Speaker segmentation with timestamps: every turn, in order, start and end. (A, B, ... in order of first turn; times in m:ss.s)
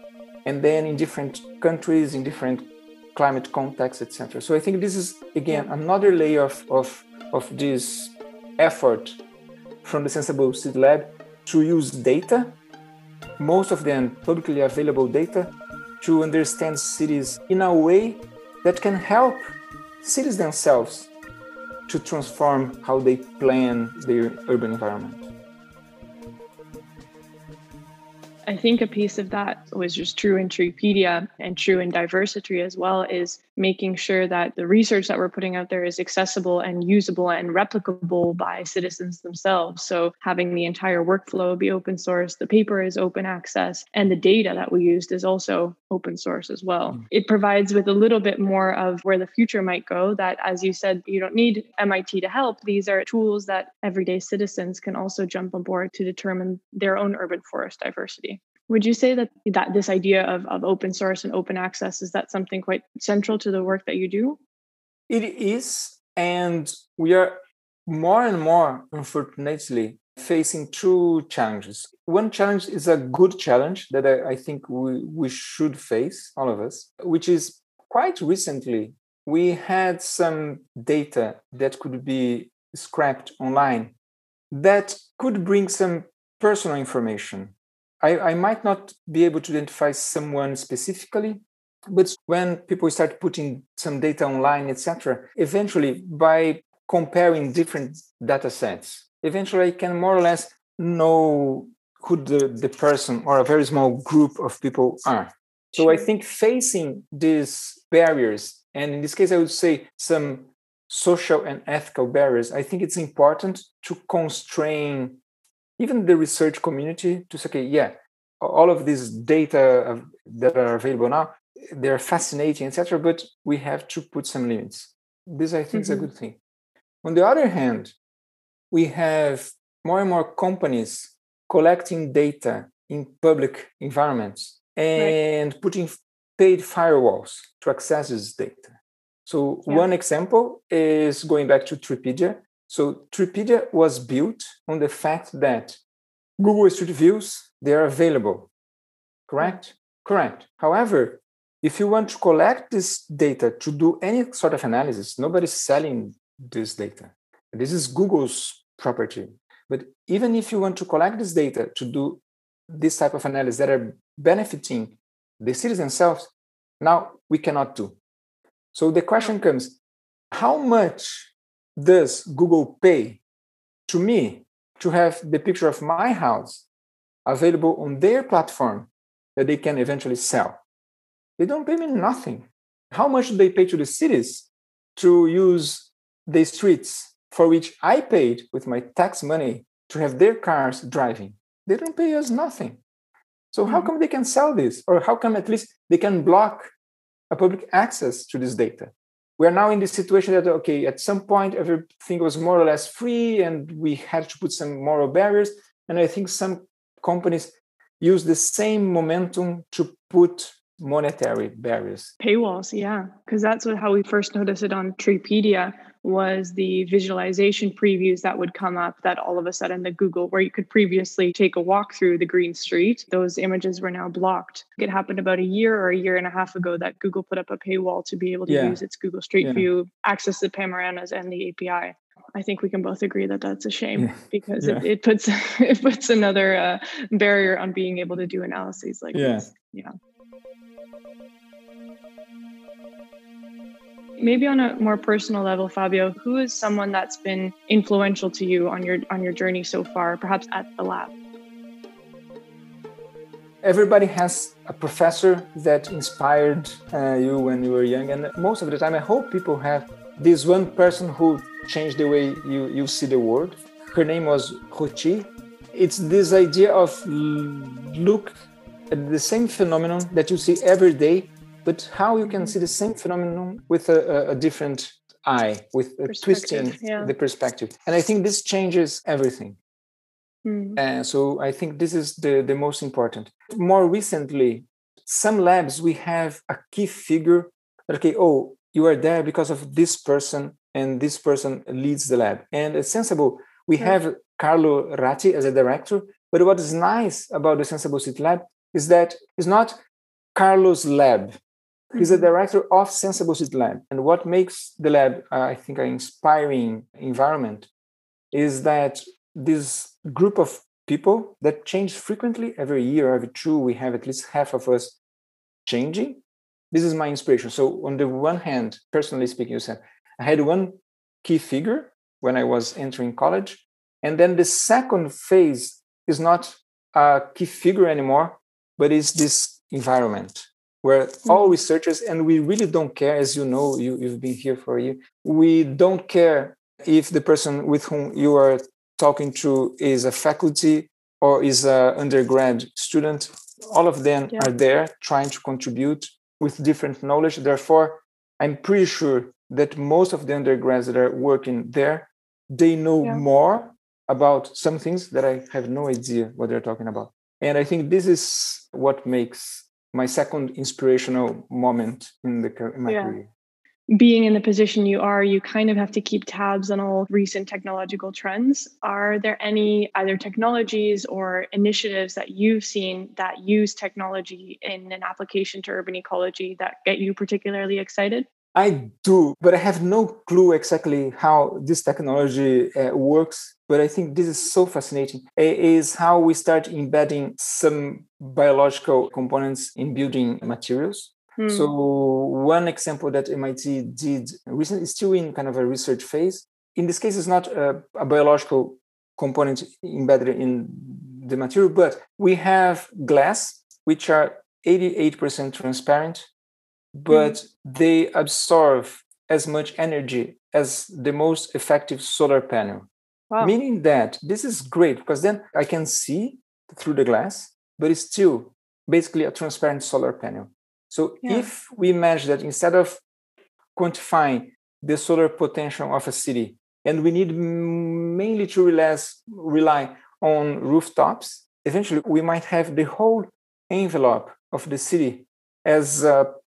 0:00.4-0:09.2 A
0:09.8-0:12.6 A
0:13.4-0:21.1 A
0:21.9-0:25.3 A
0:28.5-1:04.4 B
1:05.1-1:23.9 A
1:24.5-1:55.2 A
1:45.8-1:46.1 B
1:55.8-2:06.4 A
2:05.7-2:06.1 B
2:07.0-2:08.0 A
2:08.7-2:25.8 A
2:26.4-2:28.5 A
2:29.3-2:48.0 A
2:48.7-2:49.8 A
2:50.3-2:53.2 A
2:53.9-2:56.7 A
2:57.3-3:00.6 A
3:01.4-3:12.8 A
3:13.5-3:16.7 A
3:17.3-3:32.1 A
3:32.2-3:59.9 B
3:48.5-3:48.8 A
3:49.4-3:49.7 A
3:54.0-3:54.9 A
3:59.1-3:59.5 A
4:04.2-4:11.1 B
4:13.6-4:28.4 A
4:28.9-4:39.6 A
4:36.1-4:37.1 B
4:40.4-4:40.8 B
4:40.8-4:59.8 A
5:00.4-5:01.4 A
5:01.9-5:07.7 A
5:08.3-5:15.0 A
5:15.7-6:03.3 A
5:31.3-5:31.5 B
6:02.9-6:03.2 B
6:03.9-6:18.3 B
6:18.5-6:46.3 A
6:31.4-6:31.7 B
6:47.0-6:52.9 A
6:47.1-6:47.4 B
6:53.4-7:03.0 A
7:03.8-7:16.3 A